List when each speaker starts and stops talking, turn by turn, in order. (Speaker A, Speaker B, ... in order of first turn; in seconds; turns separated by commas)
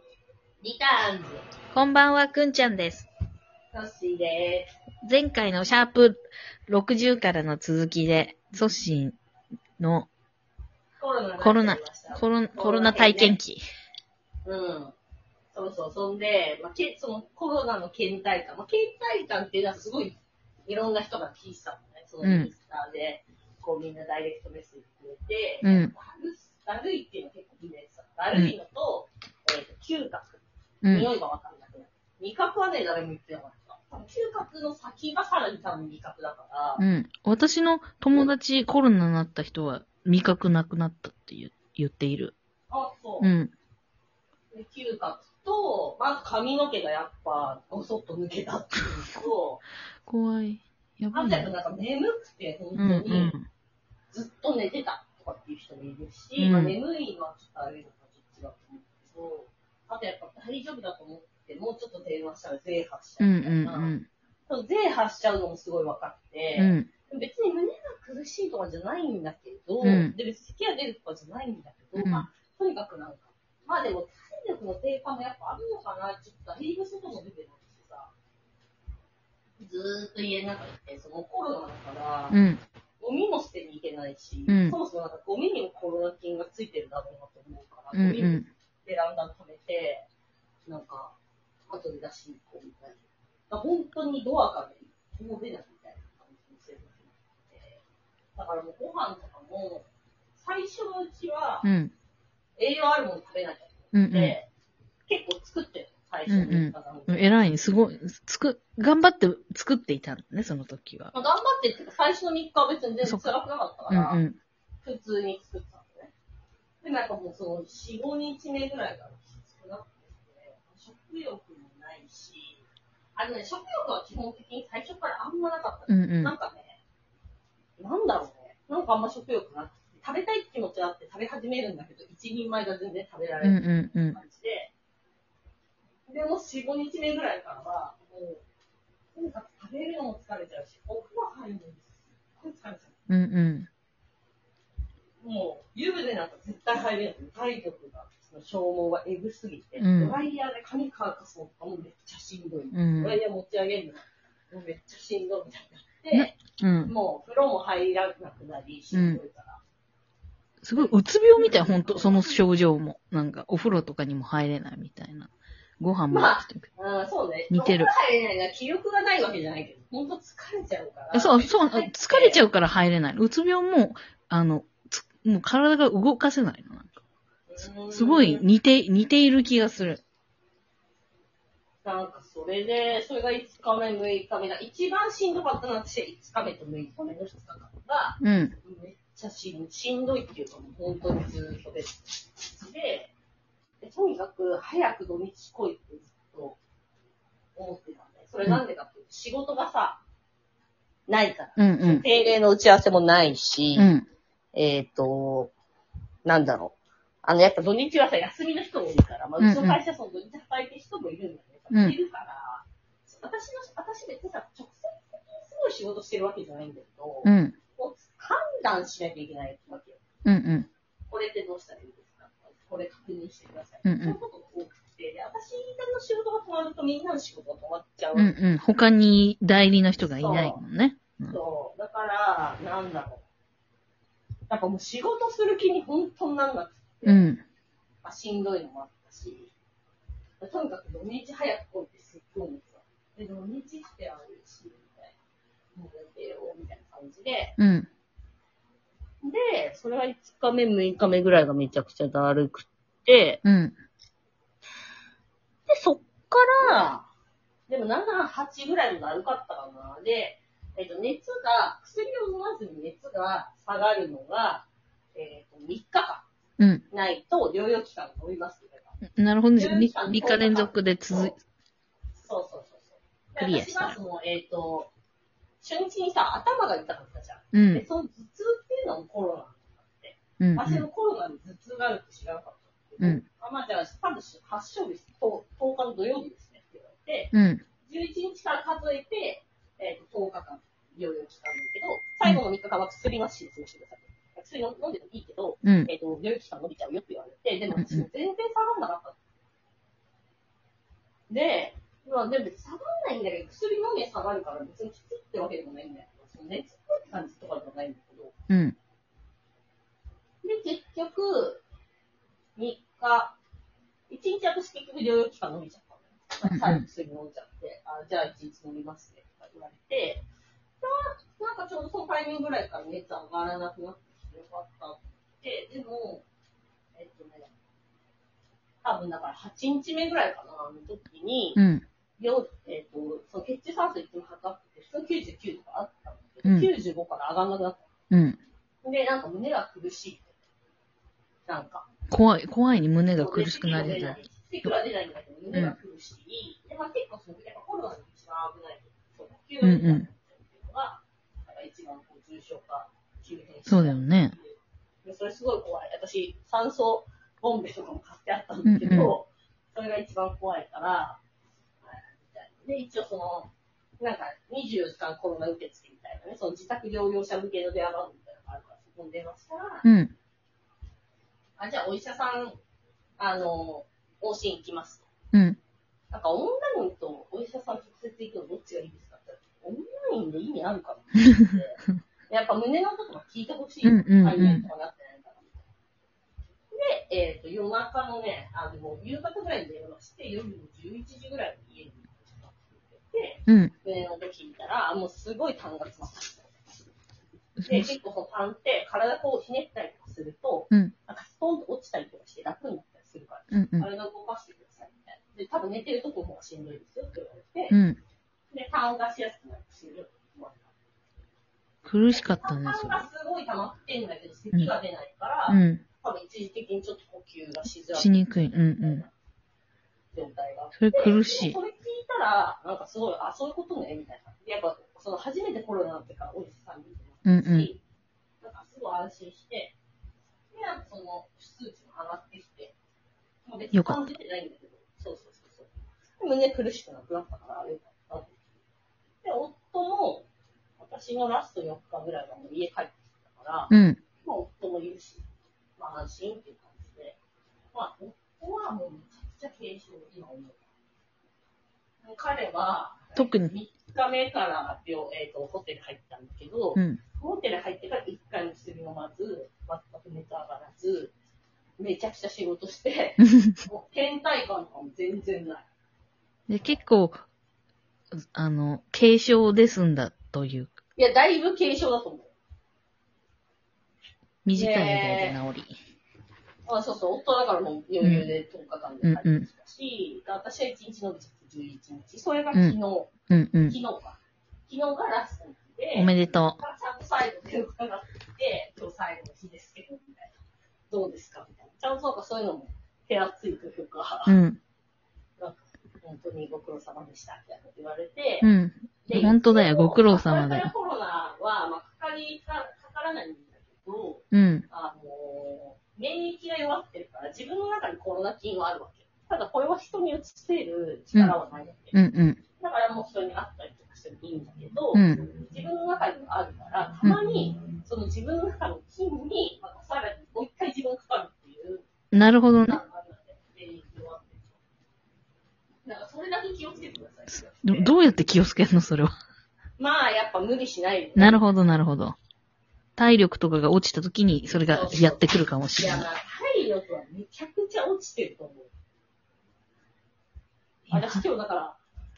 Speaker A: 0.6-1.4, Speaker B: 1.7-3.1, Speaker A: 3.7-4.7, Speaker B: 5.0-9.2, Speaker B: 9.8-10.1, Speaker A: 11.0-13.4, Speaker B: 11.4-13.6, Speaker A: 14.4-14.9, Speaker A: 15.5-36.8, Speaker B: 22.2-22.5, Speaker B: 25.6-25.9, Speaker B: 30.8-31.1, Speaker B: 36.8-42.4, Speaker A: 42.7-43.3, Speaker B: 43.2-43.5, Speaker A: 44.5-49.6, Speaker B: 50.1-51.5, Speaker A: 51.1-53.4, Speaker B: 52.8-53.5, Speaker A: 54.1-64.0, Speaker B: 56.4-56.8, Speaker B: 63.2-64.1, Speaker A: 64.5-78.1, Speaker B: 66.6-66.9, Speaker B: 69.8-70.1, Speaker B: 72.0-72.3, Speaker A: 79.6-82.4, Speaker B: 82.3-82.6, Speaker A: 83.0-90.1, Speaker B: 84.5-84.8, Speaker B: 87.9-88.5, Speaker A: 90.7-91.2, Speaker A: 91.7-93.0, Speaker A: 93.5-97.8, Speaker A: 98.4-101.7, Speaker B: 101.6-101.9, Speaker A: 102.6-104.5, Speaker B: 103.9-104.4, Speaker A: 105.1-107.5, Speaker B: 106.3-111.1, Speaker A: 111.1-114.2, Speaker B: 113.9-114.4, Speaker A: 114.8-116.1, Speaker A: 116.8-122.6, Speaker A: 123.2-126.8, Speaker B: 125.9-126.3, Speaker A: 127.8-134.7, Speaker B: 133.4-134.2, Speaker A: 136.1-138.4, Speaker A: 139.1-143.0, Speaker B: 143.1-143.7, Speaker A: 145.2-159.6, Speaker B: 149.8-150.2, Speaker B: 152.7-153.2, Speaker B: 156.1-156.9, Speaker B: 158.9-159.2, Speaker B: 160.6-166.7, Speaker A: 160.8-162.4, Speaker A: 166.1-172.4, Speaker B: 167.5-167.9, Speaker B: 171.1-177.0, Speaker A: 177.5-178.4, Speaker B: 177.9-180.0, Speaker A: 181.8-193.1, Speaker B: 188.2-188.5, Speaker A: 193.8-196.6, Speaker A: 197.6-200.0, Speaker A: 201.1-203.9, Speaker B: 201.6-202.1, Speaker B: 203.8-204.1, Speaker A: 204.5-205.5, Speaker A: 206.2-220.0, Speaker B: 209.4-209.8, Speaker B: 211.7-212.0, Speaker B: 217.2-217.6, Speaker B: 220.2-220.7, Speaker A: 221.1-228.3, Speaker B: 223.8-224.2, Speaker B: 228.2-231.4, Speaker A: 230.1-230.6, Speaker A: 231.3-233.2, Speaker A: 234.5-237.2, Speaker B: 237.1-237.4, Speaker A: 238.0-239.5, Speaker A: 240.4-245.2, Speaker A: 245.8-247.6, Speaker B: 247.6-247.9, Speaker A: 249.2-253.4, Speaker B: 253.4-253.8, Speaker A: 255.7-257.1, Speaker A: 257.7-266.3, Speaker B: 266.6-266.8, Speaker A: 266.9-269.0, Speaker B: 269.2-271.4, Speaker A: 269.6-271.4, Speaker A: 272.1-274.9, Speaker B: 273.4-274.0, Speaker A: 275.6-287.3, Speaker B: 277.5-277.8, Speaker B: 280.4-280.9, Speaker B: 287.3-287.6, Speaker A: 287.9-299.2, Speaker B: 295.6-295.9, Speaker B: 297.8-298.1, Speaker A: 301.3-308.4, Speaker B: 308.5-308.8, Speaker A: 310.4-311.6, Speaker A: 312.6-313.4, Speaker A: 314.1-320.3, Speaker B: 316.5-316.8, Speaker A: 320.8-326.2, Speaker A: 326.9-327.5, Speaker A: 328.8-331.6, Speaker B: 331.6-331.9, Speaker A: 332.2-337.9, Speaker B: 338.1-338.4, Speaker A: 338.8-340.4, Speaker A: 341.5-341.9, Speaker B: 342.1-344.2, Speaker A: 343.2-361.2, Speaker B: 349.6-350.1, Speaker B: 353.7-354.4, Speaker B: 358.6-359.1, Speaker A: 361.8-369.9, Speaker B: 369.8-370.1, Speaker A: 371.6-372.6, Speaker A: 373.2-375.1, Speaker B: 375.3-375.6, Speaker A: 376.1-385.7, Speaker B: 383.8-384.7, Speaker A: 386.7-396.6, Speaker B: 393.5-393.7, Speaker B: 397.6-397.9, Speaker A: 397.6-407.8, Speaker B: 403.5-403.9, Speaker B: 407.7-408.0, Speaker A: 408.5-410.7, Speaker B: 411.9-413.0, Speaker A: 412.1-418.2, Speaker B: 415.5-415.8, Speaker B: 417.9-419.1, Speaker A: 418.8-419.1, Speaker A: 420.1-427.8, Speaker B: 420.8-421.6, Speaker B: 427.2-427.7, Speaker A: 428.4-429.8, Speaker A: 430.5-432.8, Speaker A: 433.5-438.4, Speaker B: 433.7-434.0, Speaker A: 439.2-440.3, Speaker A: 440.8-445.3, Speaker B: 443.7-444.0, Speaker A: 445.8-447.2, Speaker A: 447.7-450.6, Speaker A: 452.0-461.1, Speaker B: 453.2-453.5, Speaker B: 456.8-457.0, Speaker A: 461.8-465.7, Speaker B: 463.2-463.6, Speaker B: 466.5-467.2, Speaker B: 468.3-470.7, Speaker A: 471.0-472.3, Speaker B: 474.4-475.8, Speaker A: 474.5-475.4, Speaker A: 476.7-483.1, Speaker B: 478.0-478.3, Speaker B: 479.0-479.5, Speaker B: 483.3-483.8, Speaker A: 483.7-490.4, Speaker B: 485.9-486.6, Speaker A: 490.9-494.4, Speaker B: 494.3-494.6, Speaker A: 495.4-498.5, Speaker B: 498.4-500.7, Speaker A: 499.1-512.0, Speaker B: 504.3-504.7, Speaker B: 511.9-512.4, Speaker A: 512.5-521.9, Speaker B: 514.9-515.2, Speaker B: 522.1-522.8, Speaker A: 522.6-524.6, Speaker A: 525.9-527.9, Speaker B: 527.3-529.1, Speaker A: 529.8-531.4, Speaker B: 531.2-532.2, Speaker B: 533.0-536.1, Speaker A: 534.7-538.7, Speaker B: 540.9-541.2, Speaker A: 540.9-541.8